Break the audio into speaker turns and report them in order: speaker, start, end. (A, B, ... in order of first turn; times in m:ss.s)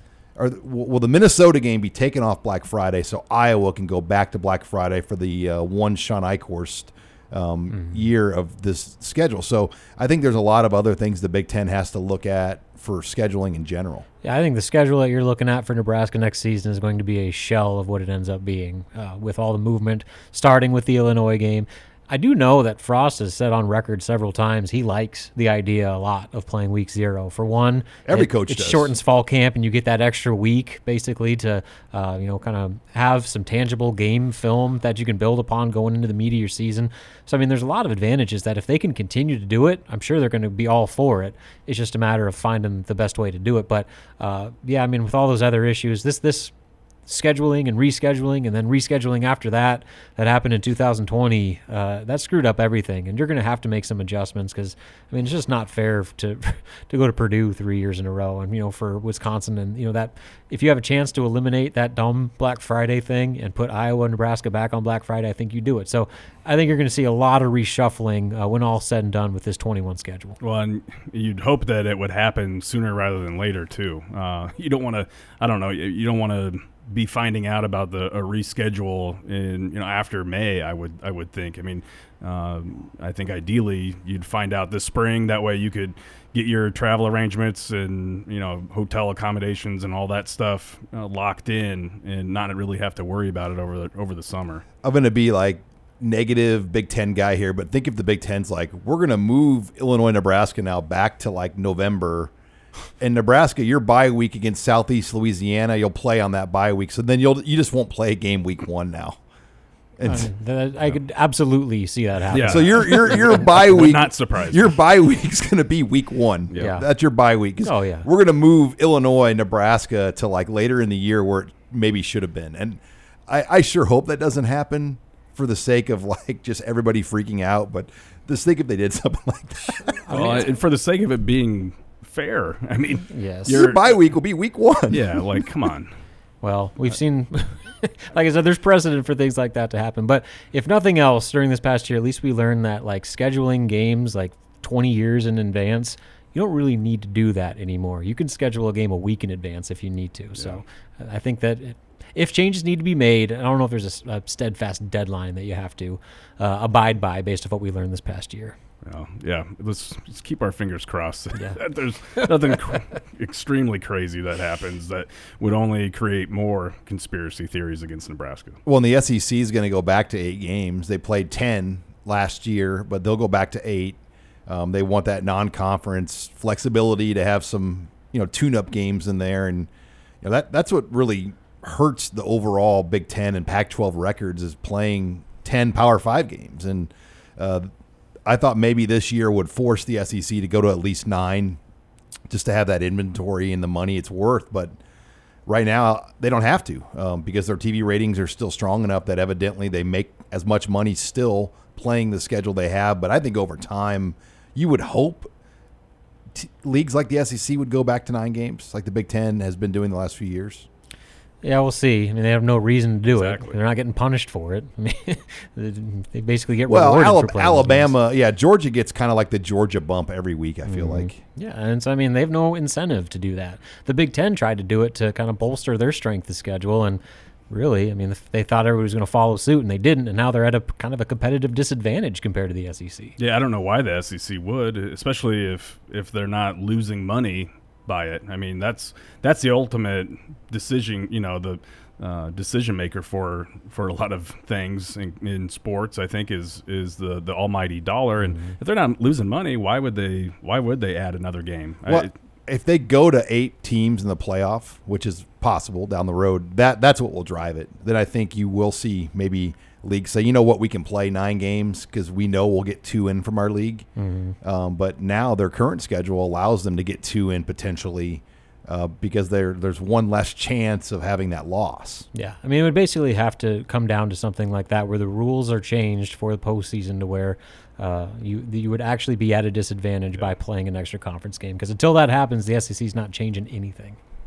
0:00.4-0:14.0 A
0:07.7-0:08.0 B
0:14.2-0:46.5 B
0:28.1-0:28.9 A
0:47.1-1:10.4 B
1:10.4-1:34.6 C
1:34.8-1:42.3 A
1:43.0-1:49.2 A
1:50.0-1:50.3 A
1:50.0-1:53.4 B
1:52.3-1:54.7 C
1:52.4-2:10.2 A
1:56.6-1:56.9 B
1:57.6-1:58.1 B
2:10.1-2:10.5 B
2:10.1-2:14.0 C
2:13.1-2:13.6 B
2:13.5-2:15.2 A
2:14.9-2:15.9 C
2:16.4-2:38.6 B
2:30.4-2:30.6 C
2:38.8-2:48.6 C
2:48.6-2:59.7 A
3:00.2-3:07.7 A
3:08.3-3:11.6 A
3:12.3-3:14.8 A
3:15.5-3:25.3 A
3:26.3-3:30.7 A
3:31.4-3:37.9 B
3:33.1-3:33.6 C
3:36.7-3:41.2 A
3:40.7-3:53.2 B
3:53.2-4:12.2 C
4:08.2-4:08.6 B
4:11.9-4:23.9 A
4:24.0-4:24.4 B
4:24.4-4:32.1 A
4:32.1-4:44.0 B